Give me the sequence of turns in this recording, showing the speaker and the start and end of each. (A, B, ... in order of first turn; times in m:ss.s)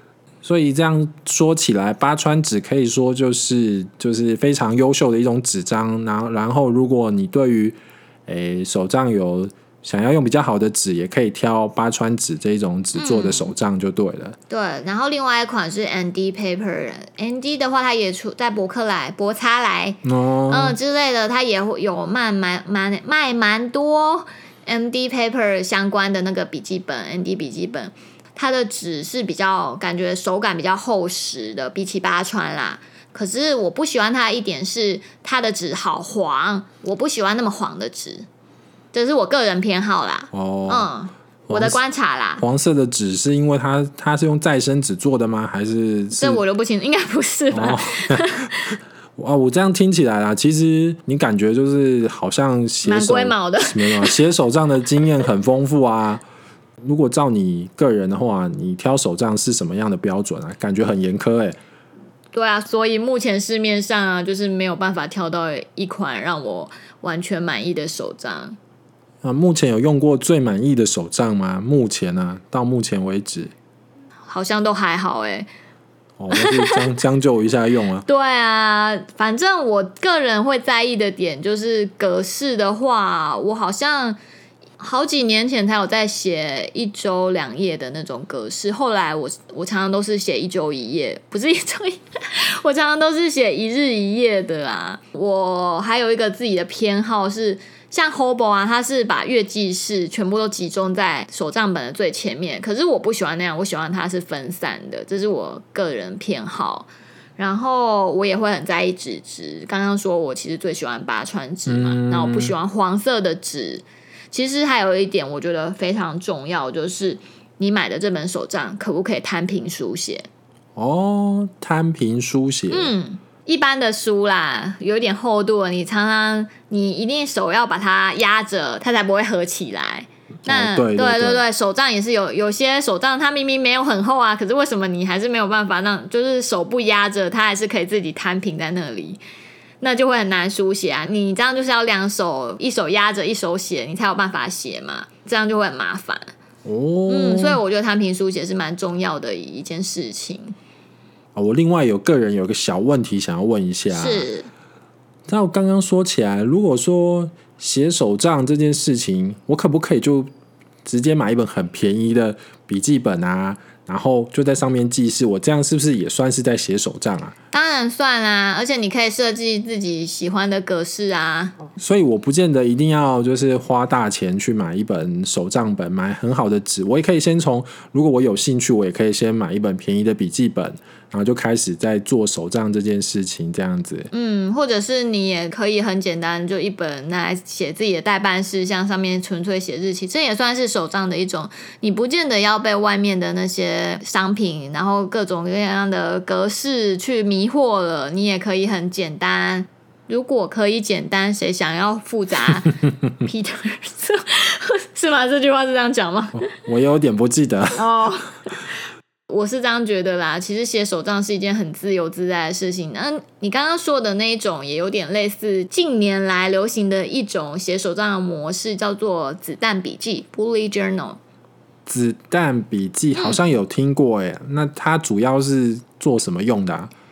0:00.4-0:14.4 A
0:13.0-0:13.5 B
0:14.5-0:38.3 B
0:20.0-0:20.8 A
0:38.9-0:42.4 B
0:40.3-0:40.9 A
0:41.5-0:41.8 A
0:42.4-0:46.4 A
0:46.2-0:48.8 B
0:47.5-0:48.5 A
0:49.2-0:56.2 A
0:52.8-0:54.2 B
0:56.8-1:01.6 A
1:02.3-1:08.6 B
1:09.2-1:13.5 A
1:14.3-1:15.5 B
1:16.2-1:18.1 A
1:16.3-1:16.9 B
1:18.1-1:24.2 B
1:24.8-2:00.3 B
1:51.7-1:52.5 A
2:00.8-2:02.9 A
2:02.7-2:19.2 B
2:10.5-2:11.4 A
2:19.8-2:26.3 B
2:26.6-2:27.6 A
2:27.1-2:30.5 B
2:31.4-2:34.3 A
2:33.9-2:34.5 B
2:35.3-2:40.3 A
2:40.8-2:47.3 A
2:47.5-2:51.6 B
2:51.8-3:04.1 A
3:04.1-3:26.4 B
3:26.4-3:27.9 A
3:27.8-3:28.6 B
3:29.3-3:41.2 B
3:41.9-3:46.9 A
3:43.2-3:43.4 B